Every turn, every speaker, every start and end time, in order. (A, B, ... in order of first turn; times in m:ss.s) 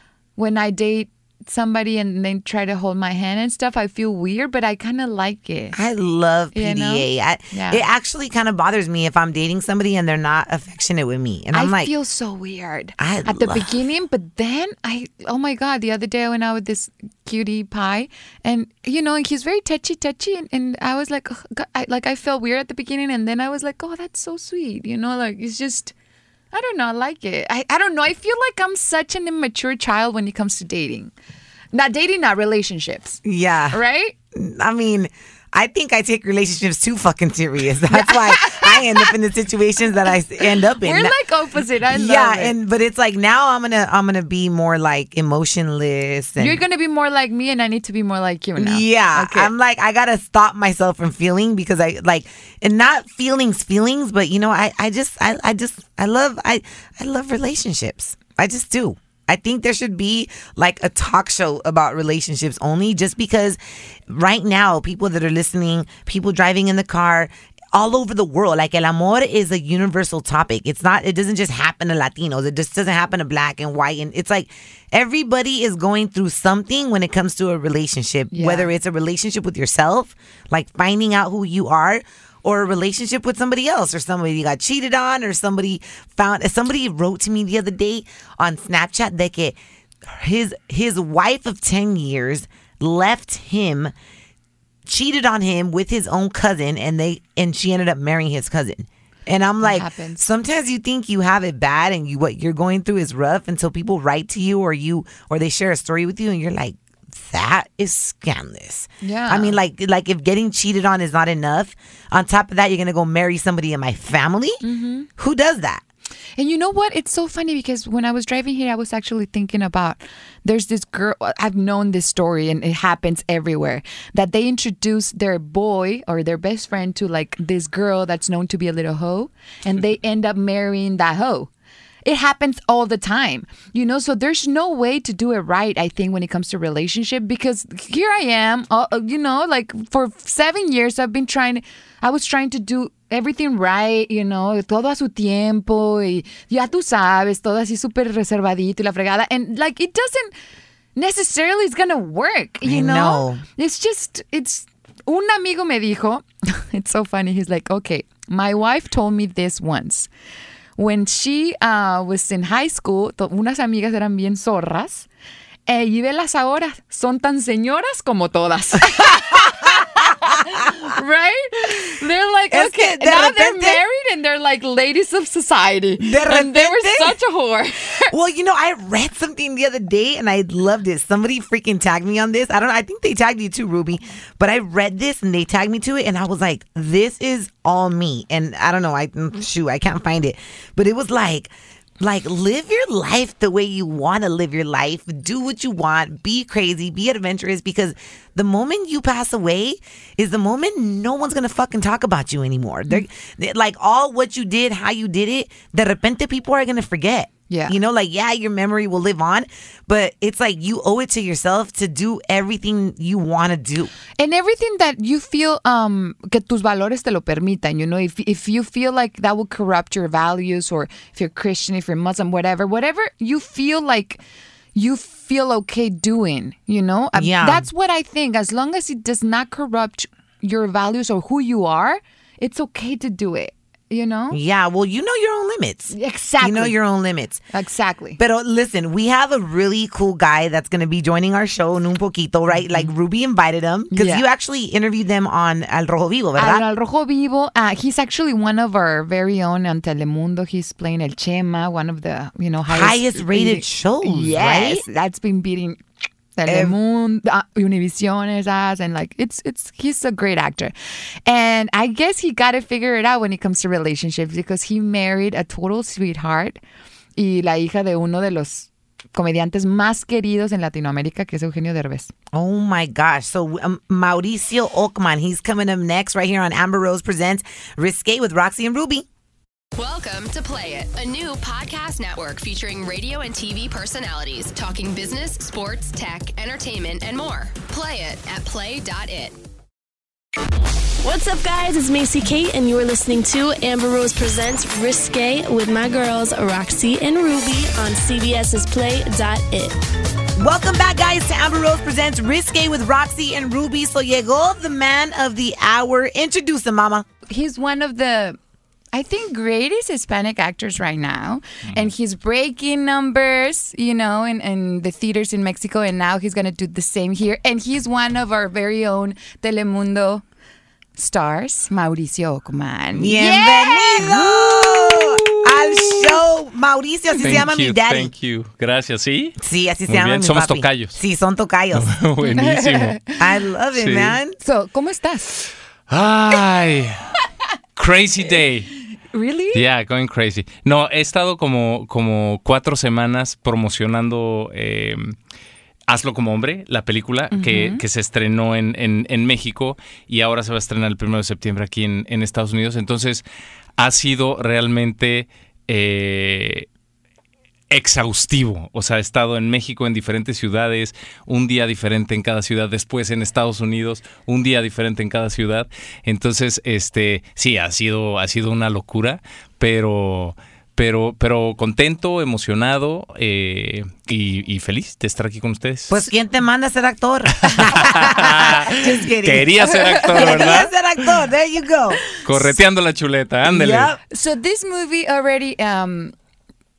0:00.4-0:05.8 A
0:05.7-0:11.9 B
0:06.5-0:07.8 A
0:11.5-0:25.9 A
0:13.0-0:13.7 B
0:26.5-0:31.1 A
0:31.7-0:33.2 A
0:33.2-0:33.8 B
0:33.7-0:34.2 A
0:34.3-0:41.2 B
0:37.9-0:39.1 A
0:40.8-0:42.6 A
0:41.8-0:46.6 B
0:46.4-0:49.5 A
0:48.6-1:33.9 B
1:18.3-1:18.7 A
1:34.9-1:54.6 B
1:39.6-1:40.2 A
1:49.0-1:49.6 A
1:54.6-1:55.1 A
1:55.2-1:55.8 B
1:56.4-2:11.5 A
2:12.1-2:30.3 A
2:31.0-2:40.1 A
2:32.6-2:33.4 B
2:40.8-2:45.1 A
2:45.7-2:58.1 A
2:52.5-2:53.8 B
2:56.0-2:57.2 B
2:58.1-3:33.9 B
3:27.5-3:27.8 A
3:34.2-3:44.2 A
3:44.8-3:54.4 A
3:47.2-3:47.7 B
3:54.3-3:57.4 B
3:55.9-3:56.8 A
3:57.5-3:58.2 A
3:58.2-4:06.6 B
4:02.6-4:02.9 A
4:03.9-4:04.2 A
4:06.4-4:15.8 A
4:12.7-4:14.8 B
4:16.4-4:20.7 A
4:16.5-4:16.8 B
4:21.3-4:26.6 A
4:27.2-4:32.1 A
4:32.3-4:39.1 B
4:39.8-4:49.4 C
4:51.0-4:59.8 D
5:00.4-5:07.0 B
5:07.3-5:08.4 A
5:08.9-5:20.2 A
5:21.0-5:25.0 A
5:23.0-5:28.1 B
5:27.2-5:29.4 E
5:29.4-5:31.9 B
5:29.9-5:31.0 E
5:31.7-5:33.0 E
5:32.2-5:33.1 A
5:33.2-5:34.4 B
5:33.8-5:34.2 E
5:34.4-5:35.3 A
5:35.9-5:37.1 E
5:37.8-5:38.7 E
5:39.1-5:39.6 A
5:39.5-5:45.2 E
5:45.9-5:53.2 E
5:47.3-5:47.8 A
5:53.8-5:56.7 E
5:57.7-6:16.0 E
6:15.9-6:22.0 B
6:17.4-6:20.7 E
6:19.7-6:20.4 A
6:22.2-6:23.9 E
6:23.4-6:24.0 B
6:24.1-6:26.1 A